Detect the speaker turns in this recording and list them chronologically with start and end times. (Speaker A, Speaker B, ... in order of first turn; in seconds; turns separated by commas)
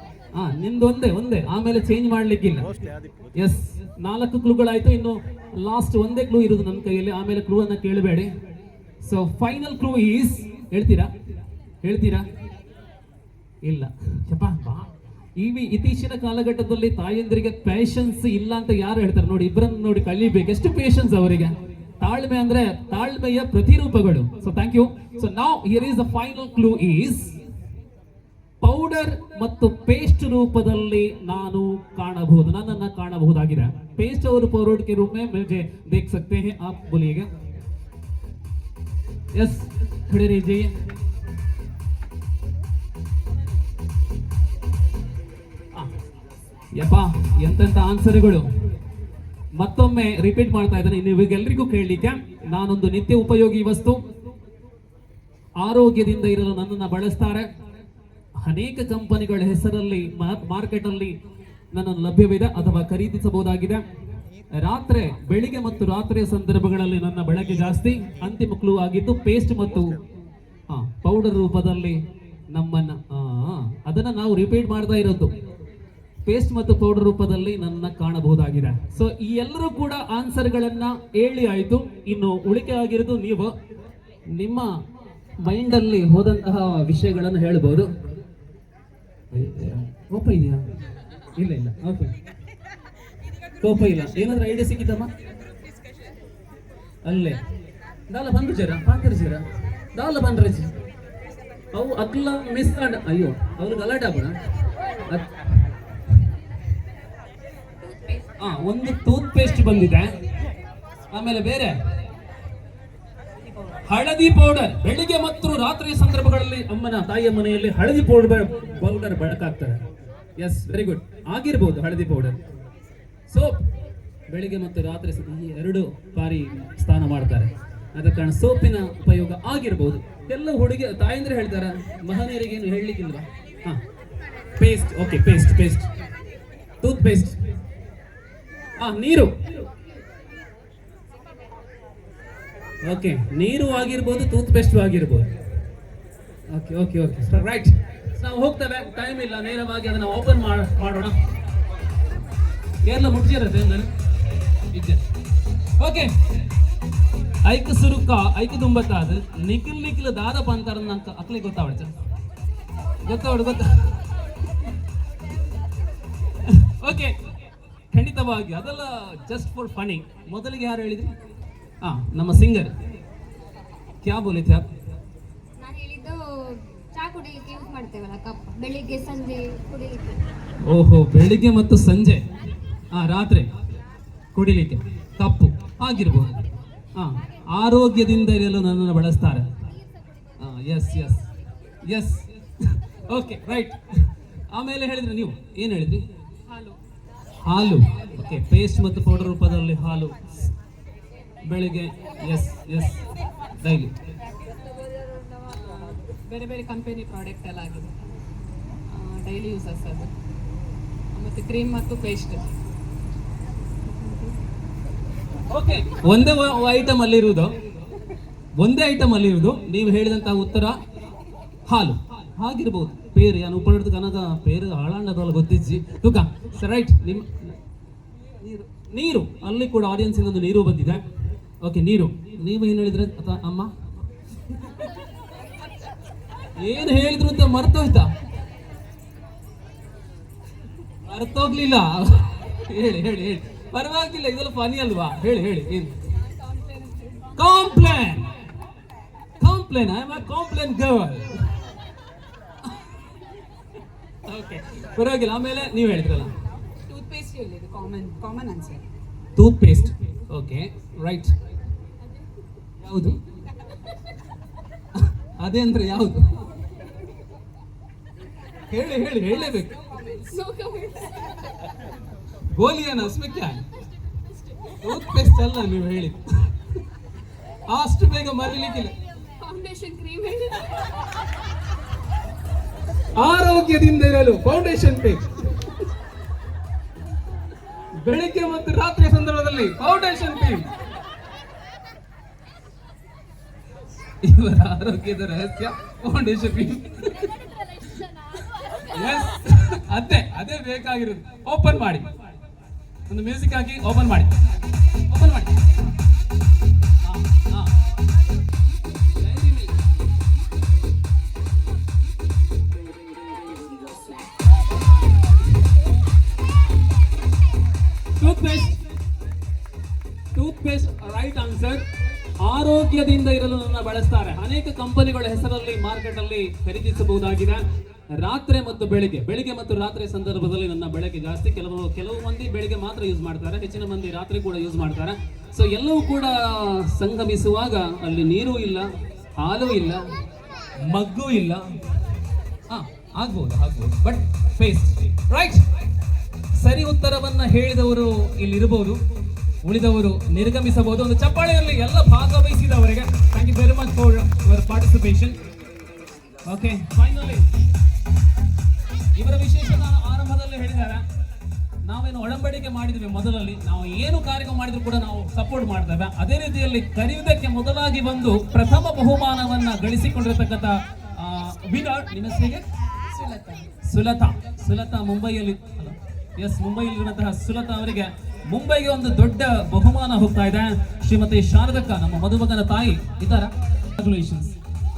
Speaker A: 0.3-2.7, Speaker A: 3.4-8.3, Speaker A: 9.0-11.1, Speaker A: 11.8-12.3, Speaker A: 13.6-27.4, Speaker A: 28.6-37.3, Speaker A: 39.3-40.7, Speaker A: 46.8-48.5, Speaker A: 49.5-54.0, Speaker A: 55.6-57.5, Speaker A: 58.4-61.2, Speaker A: 61.7-63.8, Speaker A: 64.5-70.0, Speaker A: 70.7-72.0, Speaker A: 72.5-75.3, Speaker A: 76.2-83.5, Speaker A: 84.3-84.7, Speaker A: 85.4-87.9, Speaker A: 89.3-90.6, Speaker A: 91.4-92.1, Speaker A: 93.6-95.1, Speaker A: 97.0-97.4, Speaker A: 98.1-100.7, Speaker A: 101.7-104.4, Speaker A: 105.0-105.3, Speaker A: 108.4-110.2, Speaker A: 111.1-111.8, Speaker A: 113.8-119.8, Speaker A: 120.4-122.4, Speaker A: 123.3-123.7, Speaker A: 124.3-133.8, Speaker A: 134.6-135.9, Speaker A: 136.8-137.4, Speaker A: 138.8-139.3, Speaker A: 142.8-145.3, Speaker A: 146.5-151.2, Speaker A: 152.8-153.9, Speaker A: 154.7-155.1, Speaker A: 155.8-156.1, Speaker A: 157.4-161.9, Speaker A: 163.0-164.1, Speaker A: 166.4-167.2, Speaker A: 167.9-171.1, Speaker A: 171.8-172.7, Speaker A: 174.0-174.7, Speaker B: 175.6-180.3, Speaker A: 180.6-182.2, Speaker A: 182.9-183.5, Speaker A: 184.3-186.4, Speaker A: 186.9-189.5, Speaker A: 190.4-191.3, Speaker A: 191.9-196.1, Speaker C: 196.5-196.8, Speaker A: 197.4-200.5, Speaker A: 201.4-203.1, Speaker A: 203.6-204.0, Speaker C: 205.2-208.1, Speaker C: 208.9-210.1, Speaker C: 211.1-212.5, Speaker A: 215.5-217.5, Speaker A: 218.6-220.8, Speaker A: 221.7-227.6, Speaker A: 228.4-231.0, Speaker A: 231.6-233.7, Speaker A: 236.5-238.1, Speaker A: 241.1-245.9, Speaker C: 246.4-247.3, Speaker A: 247.4-248.3, Speaker A: 249.4-251.4, Speaker A: 254.3-256.4, Speaker C: 256.8-258.9, Speaker A: 259.4-261.3, Speaker A: 262.8-263.2, Speaker A: 265.0-266.4, Speaker A: 268.7-269.8, Speaker C: 269.2-271.7, Speaker A: 272.4-273.6, Speaker C: 274.3-274.8, Speaker A: 274.8-276.6, Speaker A: 277.7-278.9, Speaker C: 279.4-281.1, Speaker A: 283.1-285.8, Speaker A: 287.9-290.7, Speaker A: 294.2-302.1, Speaker A: 303.1-304.4, Speaker A: 305.0-305.6, Speaker A: 307.0-307.7, Speaker A: 309.2-309.8, Speaker A: 318.2-318.8, Speaker A: 320.4-321.8, Speaker A: 322.4-340.1, Speaker A: 340.8-341.7, Speaker A: 342.7-345.6, Speaker A: 346.6-349.0, Speaker A: 349.6-355.4, Speaker A: 356.4-357.5, Speaker A: 359.2-361.1, Speaker A: 361.9-372.6, Speaker C: 373.1-373.7, Speaker A: 373.8-384.6